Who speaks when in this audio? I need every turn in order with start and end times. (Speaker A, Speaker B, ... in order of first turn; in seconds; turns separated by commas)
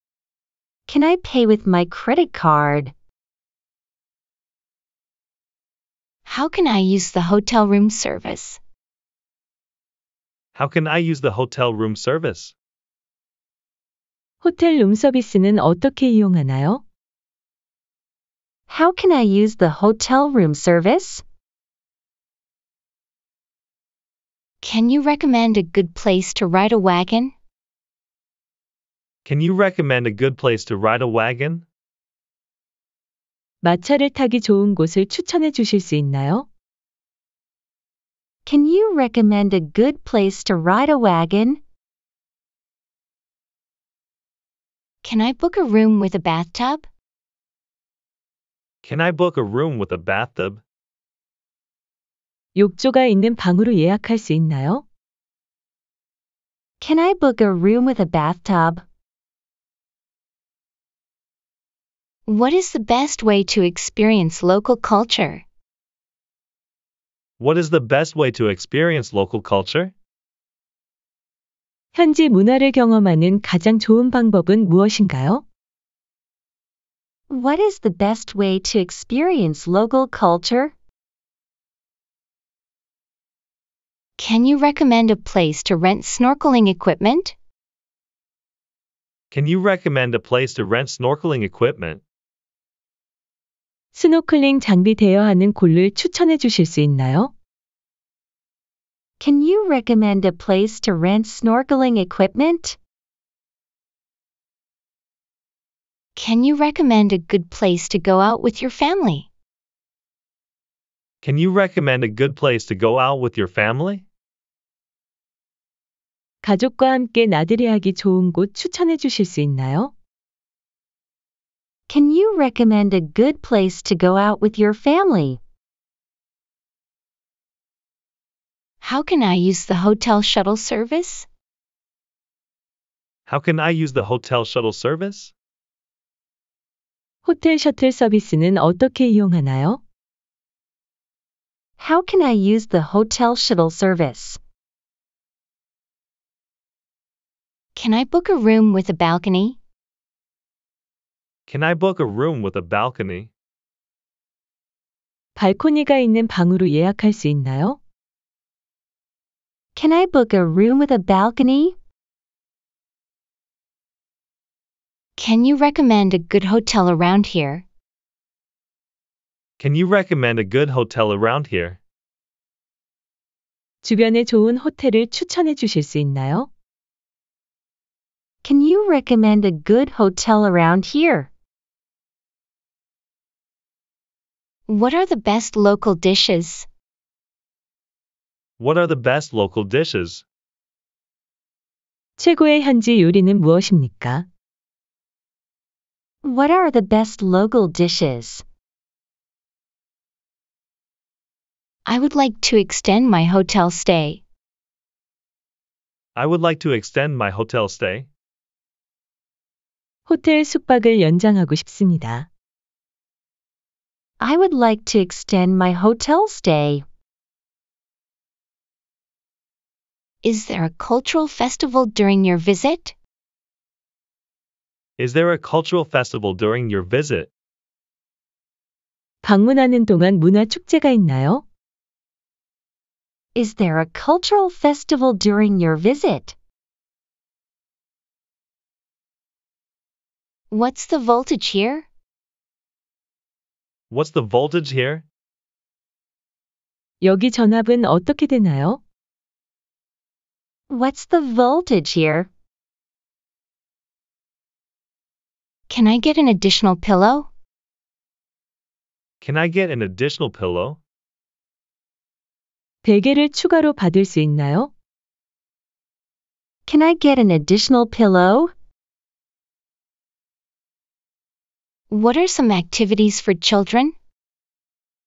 Speaker A: 0.9-2.9, Speaker B: 6.3-8.6, Speaker C: 10.6-12.5, Speaker D: 14.4-16.8, Speaker A: 18.7-21.2, Speaker B: 24.6-27.3, Speaker C: 29.2-31.6, Speaker D: 33.6-36.5, Speaker A: 38.5-41.6, Speaker B: 45.0-46.9, Speaker C: 48.8-50.6, Speaker D: 52.5-54.8, Speaker A: 56.8-58.8, Speaker B: 62.3-65.4, Speaker C: 67.4-69.9, Speaker D: 71.9-75.4, Speaker A: 77.3-80.7, Speaker B: 84.2-87.3, Speaker C: 89.3-92.0, Speaker D: 93.9-97.3, Speaker A: 99.2-102.8, Speaker B: 106.2-109.3, Speaker C: 111.2-114.0, Speaker D: 116.4-119.9, Speaker A: 121.9-125.4, Speaker B: 128.8-131.3, Speaker C: 133.3-135.3, Speaker D: 137.2-139.8, Speaker A: 141.8-144.4, Speaker B: 147.8-149.6, Speaker C: 151.5-153.3, Speaker D: 155.4-157.8, Speaker A: 159.8-161.8, Speaker B: 165.2-167.6, Speaker C: 169.6-171.8, Speaker D: 173.8-176.5, Speaker A: 178.4-181.3, Speaker B: 184.7-186.7, Speaker C: 188.6-190.2, Speaker D: 192.2-194.2, Speaker A: 196.2-198.4, Speaker B: 201.9-204.2, Speaker C: 206.2-208.1, Speaker D: 210.1-212.3, Speaker A: 214.2-216.8, Speaker B: 220.2-222.9, Speaker C: 225.0-227.3, Speaker D: 229.2-231.4, Speaker A: 233.3-236.4, Speaker B: 240.5-241.9, Speaker C: 243.9-245.0, Speaker D: 247.0-248.8, Speaker A: 250.7-252.3, Speaker B: 255.7-257.3, Speaker C: 259.2-260.8, Speaker D: 262.8-264.7, Speaker A: 266.7-268.5, Speaker B: 271.9-273.9